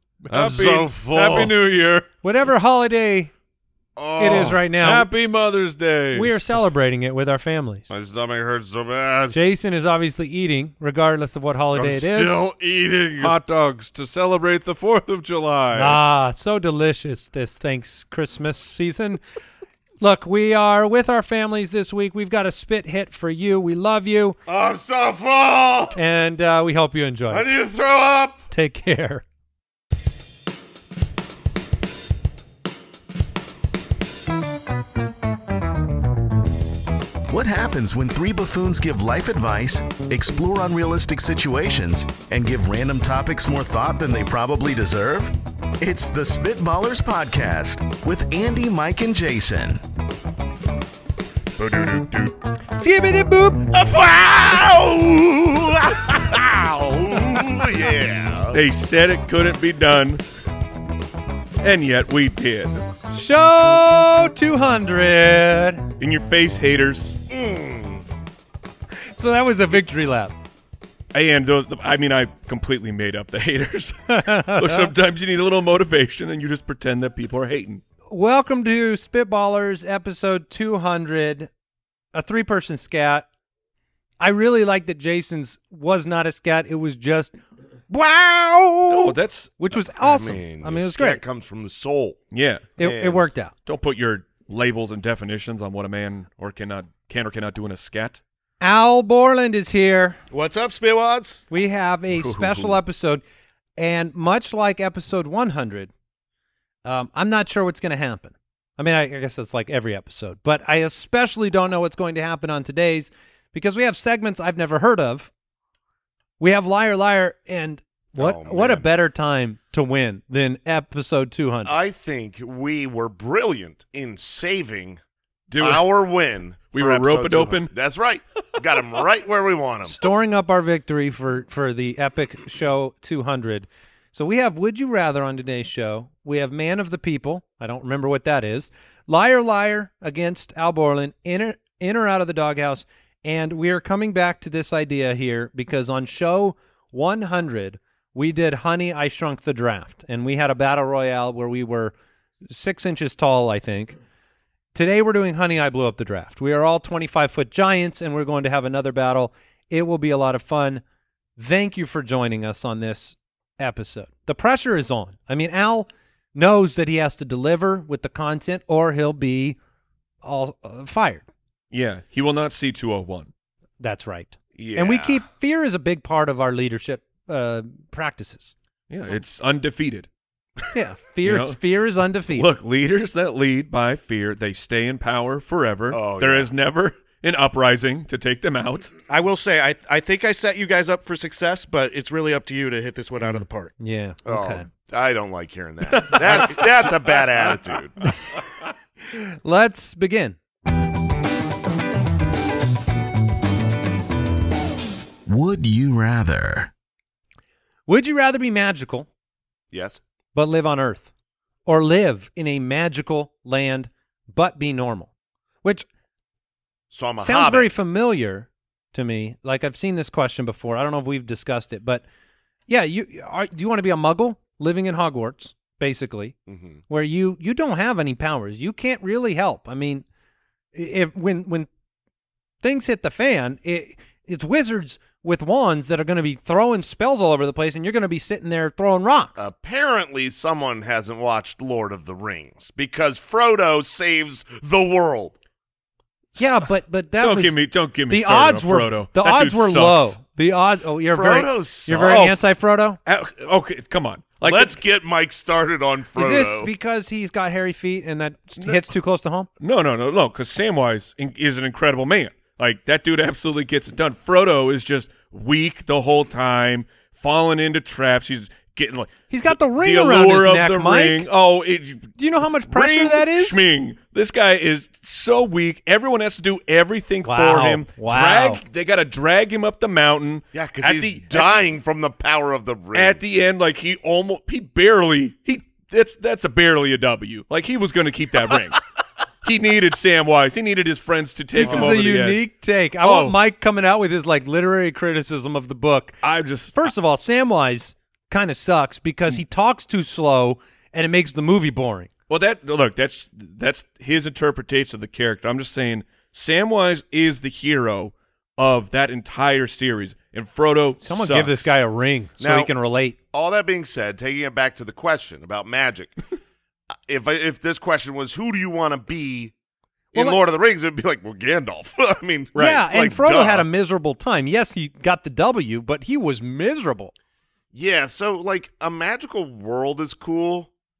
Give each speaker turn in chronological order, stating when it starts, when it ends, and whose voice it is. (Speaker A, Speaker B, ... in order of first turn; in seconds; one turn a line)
Speaker A: 0.2-2.1
Speaker B: 0.3-1.5
Speaker C: 2.2-3.3
Speaker B: 4.0-4.6
Speaker C: 4.2-5.1
Speaker A: 4.3-6.6
Speaker C: 6.1-7.9
Speaker B: 7.9-9.4
Speaker C: 9.3-12.5
Speaker B: 11.7-13.3
Speaker A: 13.2-16.0
Speaker C: 15.8-19.2
Speaker C: 20.0-24.4
Speaker B: 24.5-26.0
Speaker C: 26.0-27.5
Speaker B: 27.3-28.4
Speaker C: 28.5-29.2
Speaker D: 37.3-49.8
Speaker A: 51.6-52.3
Speaker C: 52.8-53.7
Speaker B: 53.7-58.6
Speaker A: 58.5-60.2
Speaker A: 61.6-62.9
Speaker C: 63.1-65.8
Speaker A: 66.0-67.2
Speaker B: 67.3-68.0
Speaker C: 69.1-70.3
Speaker A: 71.1-77.8
Speaker C: 74.1-74.9
Speaker C: 78.1-81.5
Speaker C: 82.1-83.3
Speaker C: 84.2-87.4
Speaker C: 87.9-91.2
Speaker A: 88.9-89.6
Speaker B: 90.0-92.2
Speaker A: 92.3-92.7
Speaker B: 92.8-93.3
Speaker C: 92.8-93.5
Speaker A: 93.7-98.2
Speaker C: 98.6-100.2
Speaker E: 100.3-101.4
Speaker C: 101.5-103.2
Speaker A: 102.1-102.8
Speaker C: 103.8-105.9
Speaker C: 106.8-115.3
Speaker C: 116.4-121.7
Speaker B: 118.1-118.9
Speaker B: 121.6-125.0
Speaker A: 125.5-125.9
Speaker B: 125.6-129.9
Speaker A: 126.7-127.7
Speaker C: 129.9-151.9
Speaker C: 152.4-153.9
Speaker C: 154.7-160.8
Speaker C: 161.4-169.6
Speaker C: 170.2-171.2
Speaker A: 171.7-173.3
Speaker C: 173.8-178.5
Speaker B: 174.5-175.2
Speaker A: 178.9-180.1
Speaker C: 180.7-182.4
Speaker A: 181.2-181.6
Speaker A: 182.3-188.9
Speaker B: 185.9-186.5
Speaker E: 189.1-193.7
Speaker C: 193.8-194.7
Speaker B: 194.2-197.9
Speaker A: 195.8-197.6
Speaker C: 199.1-200.4
Speaker D: 205.2-206.7
Speaker C: 207.9-209.1
Speaker B: 209.7-210.0
Speaker C: 210.3-211.1
Speaker C: 211.7-215.1
Speaker B: 216.9-217.7
Speaker C: 217.2-222.0
Speaker C: 222.7-226.3
Speaker B: 226.5-226.8
Speaker C: 226.9-230.1
Speaker C: 230.7-231.7
Speaker C: 232.6-239.5
Speaker B: 239.4-245.3
Speaker C: 246.4-247.6
Speaker A: 247.2-250.2
Speaker C: 248.1-253.0
Speaker B: 251.1-252.2
Speaker A: 252.0-252.5
Speaker A: 253.1-254.8
Speaker B: 254.4-256.7
Speaker C: 256.1-259.5
Speaker A: 258.6-258.9
Speaker A: 259.6-272.1
Speaker C: 269.3-271.2
Speaker C: 272.2-273.6
Speaker A: 272.7-281.6
Speaker C: 277.2-278.6
Speaker B: 280.5-283.2
Speaker A: 282.9-288.8
Speaker A: 289.4-292.4
Speaker C: 291.6-296.2
Speaker B: 291.6-291.9
Speaker A: 293.0-293.4
Speaker A: 296.2-296.9
Speaker C: 296.7-302.1
Speaker A: 302.3-311.8
Speaker C: 311.0-313.2
Speaker B: 312.4-312.7
Speaker B: 313.3-316.1
Speaker B: 317.1-319.5
Speaker B: 320.1-323.7
Speaker C: 322.6-327.1
Speaker B: 327.7-330.7